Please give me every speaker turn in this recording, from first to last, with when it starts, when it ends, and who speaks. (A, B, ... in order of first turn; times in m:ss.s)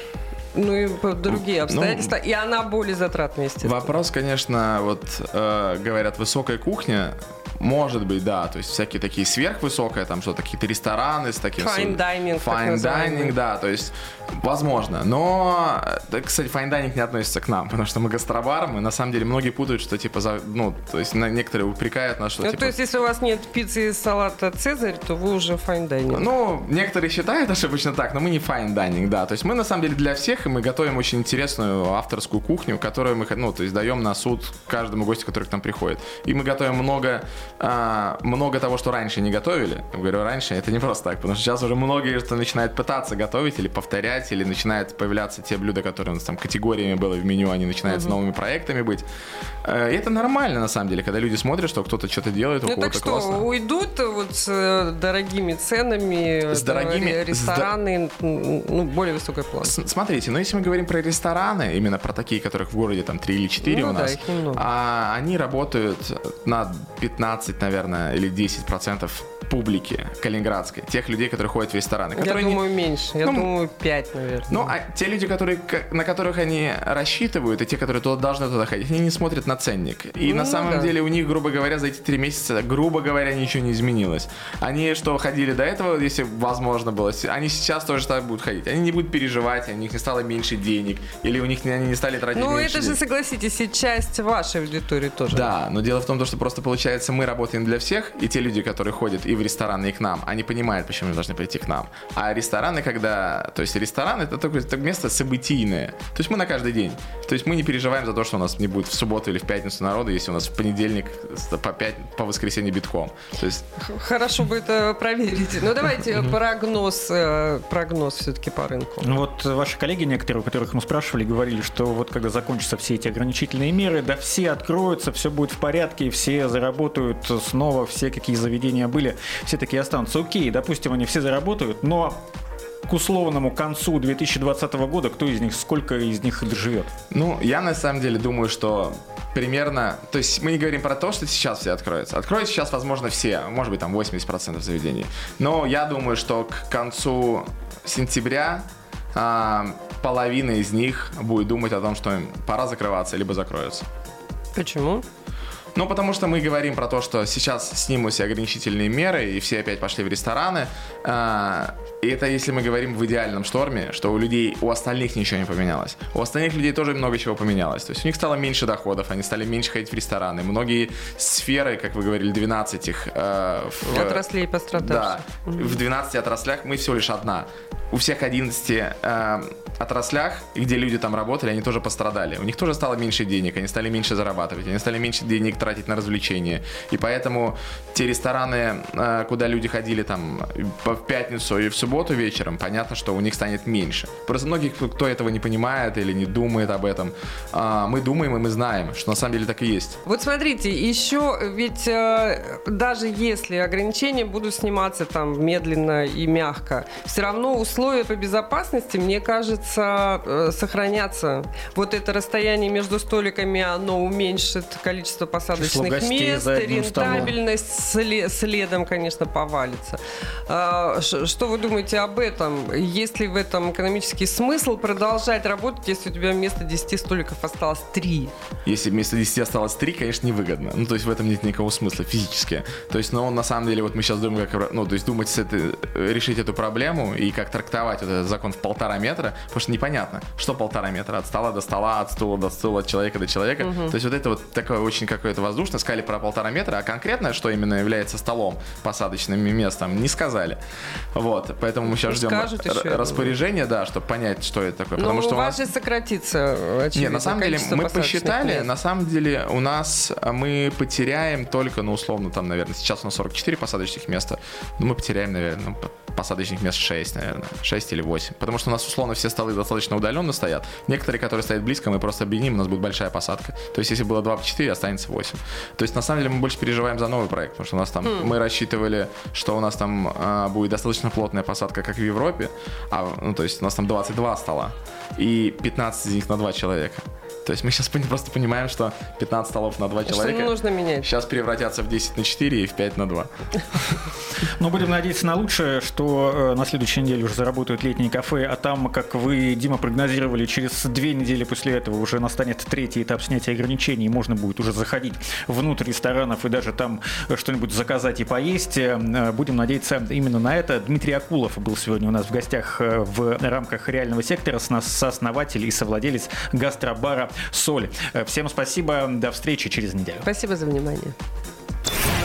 0:00.5-0:03.9 A
0:01.3-0:02.1 B
0:03.6-0:22.7 B
0:11.6-0:13.4 A
0:22.4-0:26.3 A
0:26.1-0:49.0 B
0:47.9-0:48.2 A
0:49.6-0:53.5 B
0:52.6-0:59.7 A
0:56.5-0:57.7 B
0:59.6-1:12.6 B
1:03.6-1:04.6 A
1:12.2-1:14.7 A
1:13.2-1:13.5 B
1:14.5-1:33.0 B
1:20.2-1:20.9 A
1:32.3-1:35.5 A
1:35.3-1:53.7 B
1:53.8-1:59.2 A
1:59.0-2:12.2 C
2:12.9-2:16.9 C
2:17.1-2:33.8 B
2:34.6-2:35.0 A
2:35.8-2:54.2 B
2:53.9-2:55.8 A
2:54.8-3:20.0 B
3:20.0-3:48.3 A
3:35.6-3:37.4 C
3:48.6-4:10.6 B
4:03.6-4:04.0 A
4:11.1-4:15.6 B
4:11.8-4:13.4 A
4:15.0-4:18.7 A
4:16.9-4:54.0 B
4:38.0-4:38.3 A
4:50.1-4:51.1 A
4:54.4-5:20.3 C
5:20.2-5:21.2 A